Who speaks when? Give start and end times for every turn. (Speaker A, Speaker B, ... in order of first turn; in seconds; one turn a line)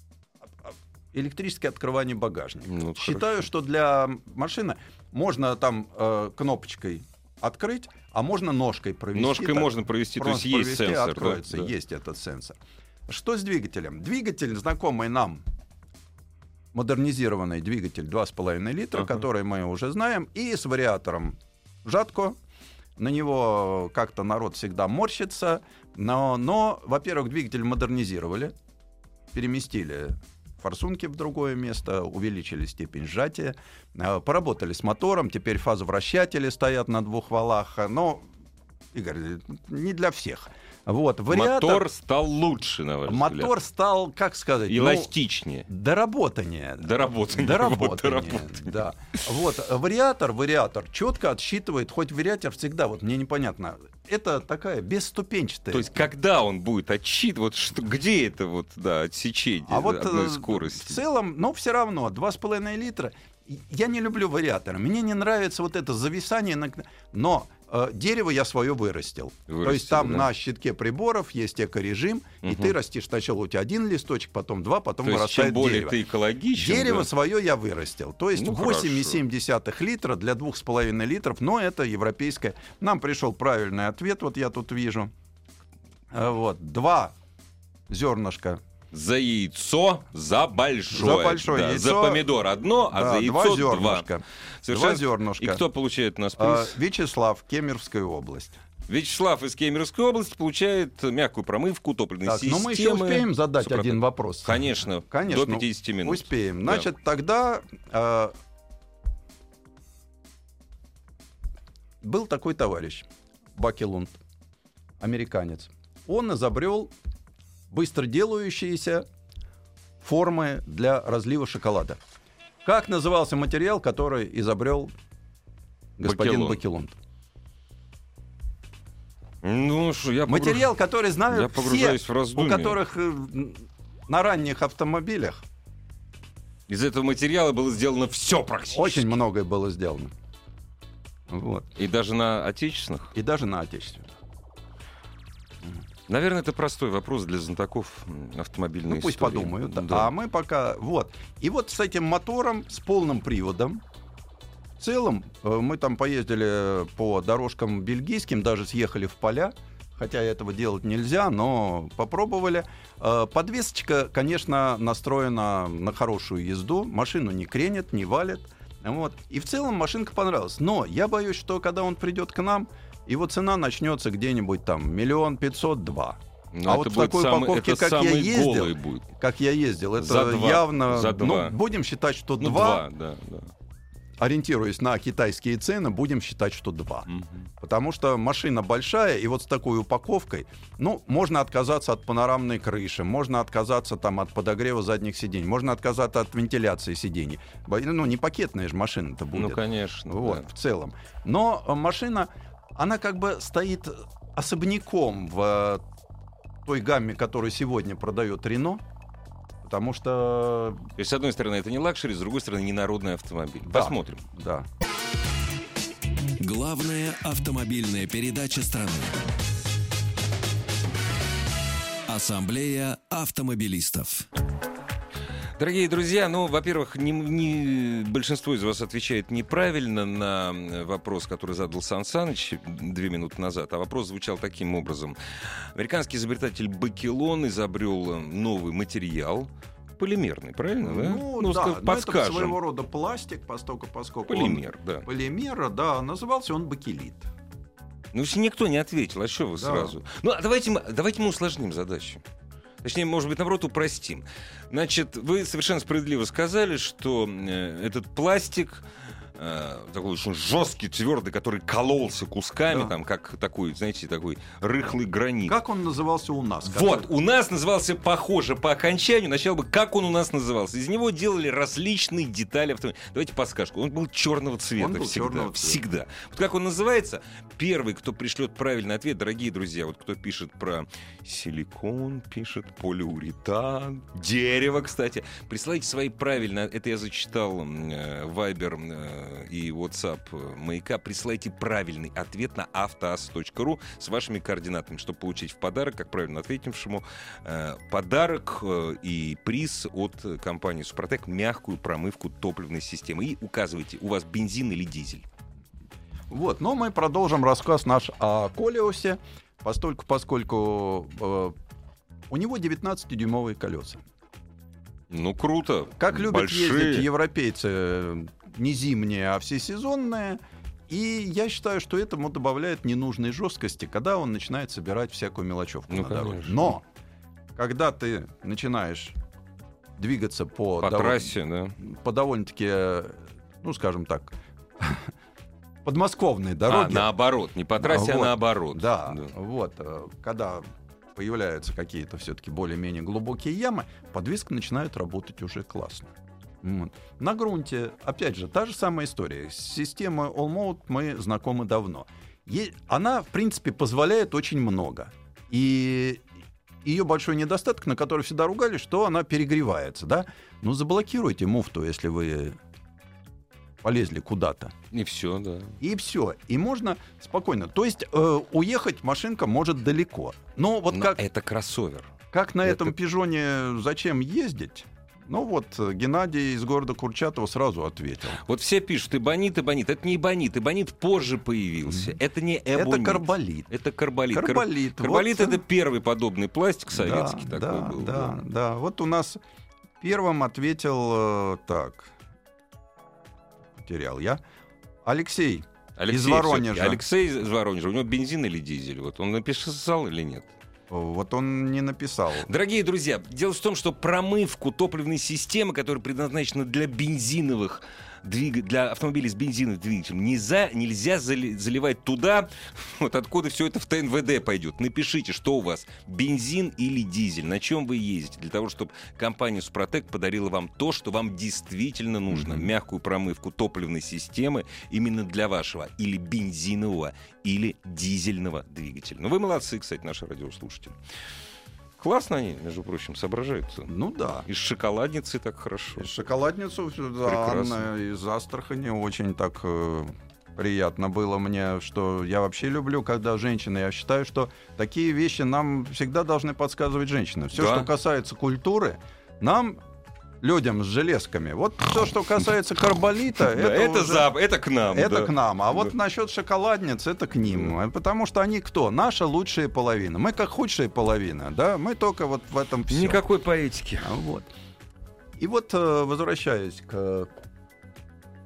Speaker A: 0.6-15.4
Speaker B: 2.7-3.5
Speaker B: 9.2-11.7
Speaker A: 16.7-22.4
Speaker A: 23.0-28.5
Speaker A: 29.3-38.3
Speaker A: 38.9-41.9
Speaker B: 41.3-43.5
Speaker A: 43.1-45.1
Speaker B: 44.7-45.7
Speaker A: 45.7-56.1
Speaker B: 46.8-48.8
Speaker B: 55.7-61.0
Speaker A: 59.7-76.0
Speaker B: 69.5-70.3
Speaker B: 72.4-72.7
Speaker B: 75.0-77.1
Speaker A: 76.5-85.1
Speaker B: 78.3-79.2
Speaker A: 86.1-87.2
Speaker A: 87.9-88.6
Speaker B: 88.9-94.1
Speaker A: 90.9-92.3
Speaker A: 92.9-95.6
Speaker B: 94.6-96.8
Speaker A: 96.4-98.6
Speaker B: 98.9-106.9
Speaker A: 102.2-108.4
Speaker A: 112.0-114.2
Speaker A: 115.0-116.9
Speaker A: 117.7-119.0
Speaker A: 120.0-122.0
Speaker A: 122.6-124.9
Speaker A: 126.0-127.0
Speaker B: 126.0-126.6
Speaker B: 129.4-130.7
Speaker A: 130.3-135.4
Speaker B: 131.3-132.8
Speaker B: 136.7-139.1
Speaker A: 138.7-140.1
Speaker A: 141.3-141.7
Speaker B: 141.8-143.1
Speaker A: 143.2-144.1
Speaker B: 146.1-150.1
Speaker A: 148.9-153.8
Speaker A: 154.8-182.8
Speaker B: 176.5-179.1
Speaker B: 180.0-181.6
Speaker B: 182.4-183.5
Speaker A: 184.2-187.1
Speaker B: 187.1-187.4
Speaker A: 187.6-205.8
Speaker B: 199.3-200.5
Speaker A: 206.7-208.8
Speaker A: 209.6-210.9
Speaker B: 211.0-214.2
Speaker A: 213.7-214.7
Speaker C: 216.4-219.2
Speaker C: 222.1-224.3
Speaker B: 225.6-242.6
Speaker A: 240.8-247.3
Speaker B: 244.3-245.1
Speaker B: 248.1-252.2
Speaker A: 249.6-250.0
Speaker B: 252.8-265.6
Speaker A: 265.5-267.1
Speaker B: 266.6-305.2
Speaker A: 274.8-275.8
Speaker A: 306.3-311.6
Speaker A: 312.3-314.0
Speaker B: 315.1-317.1
Speaker A: 316.0-326.8
Speaker B: 325.9-326.7
Speaker A: 327.6-329.2
Speaker A: 330.0-335.1
Speaker B: 330.8-331.8
Speaker A: 335.8-337.1
Speaker B: 336.7-339.3
Speaker A: 337.8-356.2
Speaker A: 356.8-362.6
Speaker A: 363.8-364.7
Speaker B: 364.9-365.8
Speaker A: 365.8-371.2
Speaker B: 370.9-372.1
Speaker A: 372.3-378.4
Speaker B: 378.4-388.4
Speaker A: 381.9-382.2
Speaker A: 382.7-383.7
Speaker A: 384.3-385.6
Speaker A: 386.9-389.4
Speaker A: 390.0-392.1
Speaker A: 393.8-394.4
Speaker A: 395.0-397.0
Speaker B: 396.0-400.5
Speaker A: 400.9-402.5
Speaker B: 402.4-431.0
Speaker A: 422.3-422.7
Speaker B: 432.0-436.1
Speaker A: 433.9-434.5
Speaker A: 436.0-449.8
Speaker B: 437.2-437.9
Speaker B: 447.6-447.9
Speaker A: 450.4-454.3
Speaker B: 453.4-455.3
Speaker A: 454.9-463.2
Speaker B: 462.9-464.1
Speaker A: 464.0-464.5
Speaker A: 465.4-467.3